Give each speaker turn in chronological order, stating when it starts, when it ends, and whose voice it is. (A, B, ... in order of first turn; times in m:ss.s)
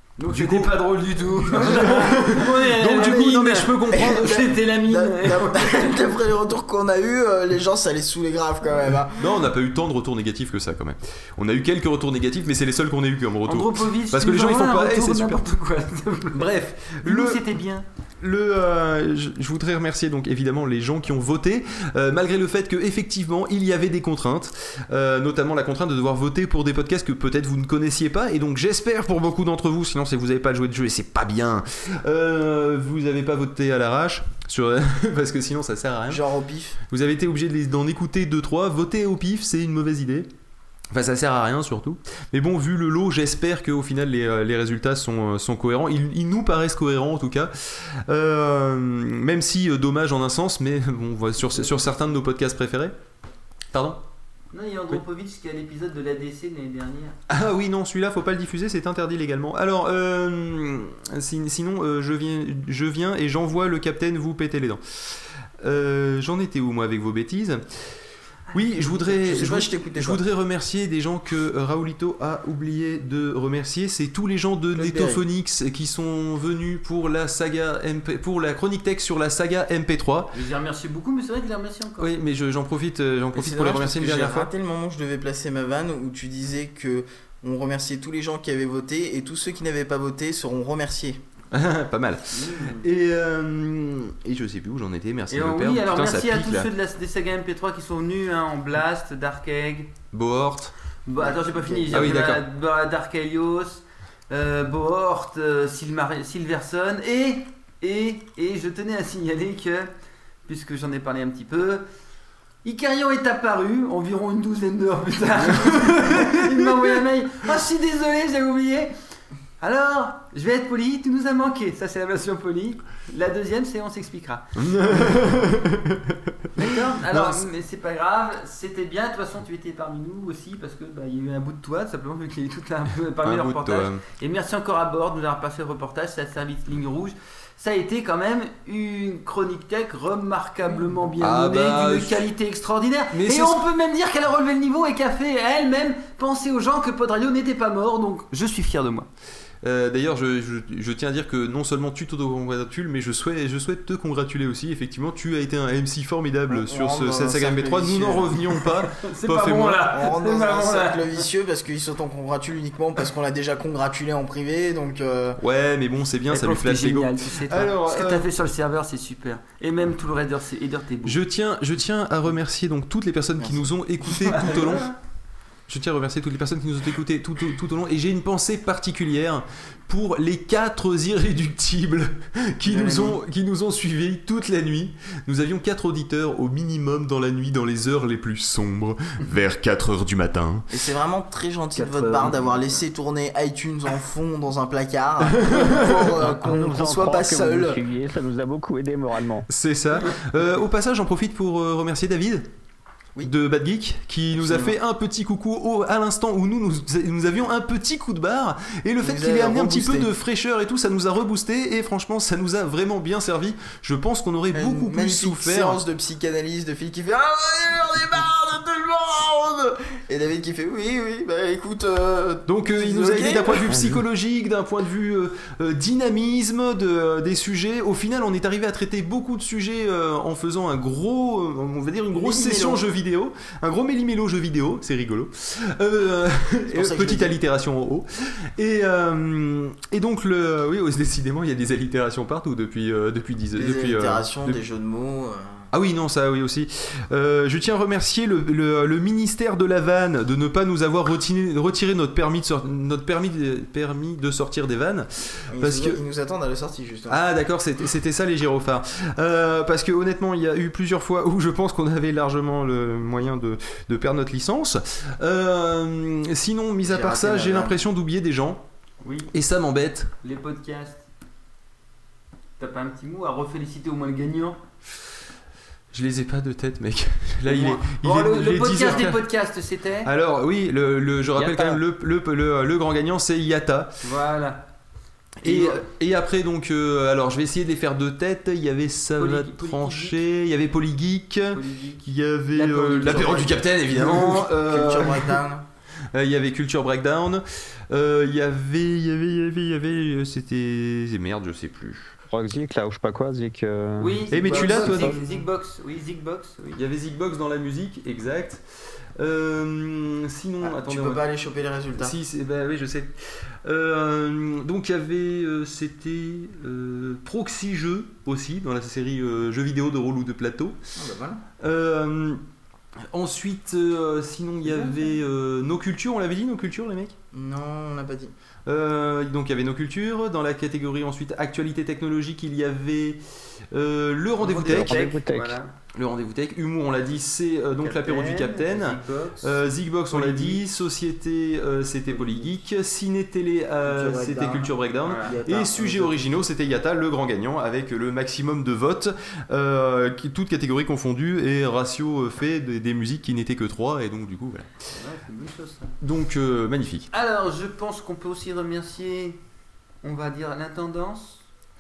0:00.2-0:06.0 A
0:00.3-0:00.8 B
0:01.4-0:04.4 B
0:03.9-0:09.3 C
0:09.1-0:15.5 B
0:13.5-0:16.5 A
0:16.3-0:17.5 B
0:17.0-0:17.9 A
0:18.2-0:36.2 B
0:36.1-0:36.8 C
0:36.9-0:40.3 B
0:40.9-0:52.9 B
0:53.7-0:54.0 B
0:54.5-0:57.2 A
0:57.3-1:04.8 B
1:05.6-1:07.6 B
1:08.5-1:20.3 B
1:09.0-1:10.2 C
1:14.8-1:15.2 C
1:20.3-1:22.1 A
1:22.0-1:24.5 B
1:23.3-1:31.2 C
1:31.5-1:36.7 B
1:32.3-1:32.8 A
1:35.3-1:39.9 A
1:40.1-1:40.7 B
1:41.1-1:49.9 A
1:41.2-1:42.2 C
1:41.9-1:42.4 B
1:50.5-1:51.8 A
1:52.6-1:58.9 A
1:55.6-1:56.4 B
1:59.6-2:04.5 A
2:04.6-2:07.4 B
2:06.6-2:29.1 A
2:13.2-2:14.0 B
2:21.2-2:22.3 B
2:23.1-2:23.6 B
2:29.6-2:39.9 B
2:36.5-2:38.4 C
2:38.8-2:41.2 A
2:39.9-2:45.4 C
2:45.4-2:48.3 B
2:46.3-2:51.2 A
2:51.0-2:54.9 B
2:53.4-2:53.7 C
2:54.2-2:54.9 A
2:55.7-3:10.7 B
3:02.6-3:03.2 C
3:10.7-3:17.8 C
3:11.8-3:12.8 A
3:15.3-3:16.2 B
3:16.0-3:19.5 D
3:19.5-3:22.5 B
3:23.2-3:35.8 B
3:24.4-3:24.8 C
3:29.0-3:30.1 C
3:34.5-3:43.8 C
3:42.5-4:04.6 B
3:52.1-3:52.8 C
3:56.7-3:57.4 C
4:03.6-4:05.7 C
4:05.7-4:16.0 B
4:15.5-4:17.2 C
4:17.1-4:28.6 B
4:26.8-4:27.8 C
4:29.0-4:29.3 A
4:29.3-4:30.1 B
4:30.2-4:31.0 A
4:32.6-4:34.6 A
4:35.9-4:39.2 B
4:37.5-4:40.1 A
4:40.0-4:44.0 B
4:41.4-4:41.8 A
4:44.0-4:44.6 A
4:45.4-4:45.8 A
4:45.4-4:55.4 B
4:49.2-4:50.2 A
4:51.5-4:53.5 A
4:52.8-4:55.6 C
4:56.1-5:02.1 B
5:02.3-5:05.2 D
5:04.0-5:06.8 A
5:04.3-5:05.2 B
5:06.7-5:08.6 B
5:09.2-5:11.2 B
5:10.6-5:12.2 C
5:12.0-5:13.1 B
5:13.6-5:20.8 B
5:21.0-5:21.4 C
5:21.6-5:22.4 B
5:23.1-5:27.2 B
5:27.3-5:28.3 C
5:28.7-5:33.2 B
5:33.7-5:35.0 B
5:34.4-5:35.7 A
5:34.6-5:35.6 D
5:35.9-5:54.7 B
5:37.8-5:39.6 A
5:40.1-5:40.6 A
5:43.8-5:46.4 C
5:45.0-5:45.3 A
5:54.9-5:55.9 A
5:56.0-5:57.1 B
5:57.1-5:59.4 A
6:00.0-6:01.4 A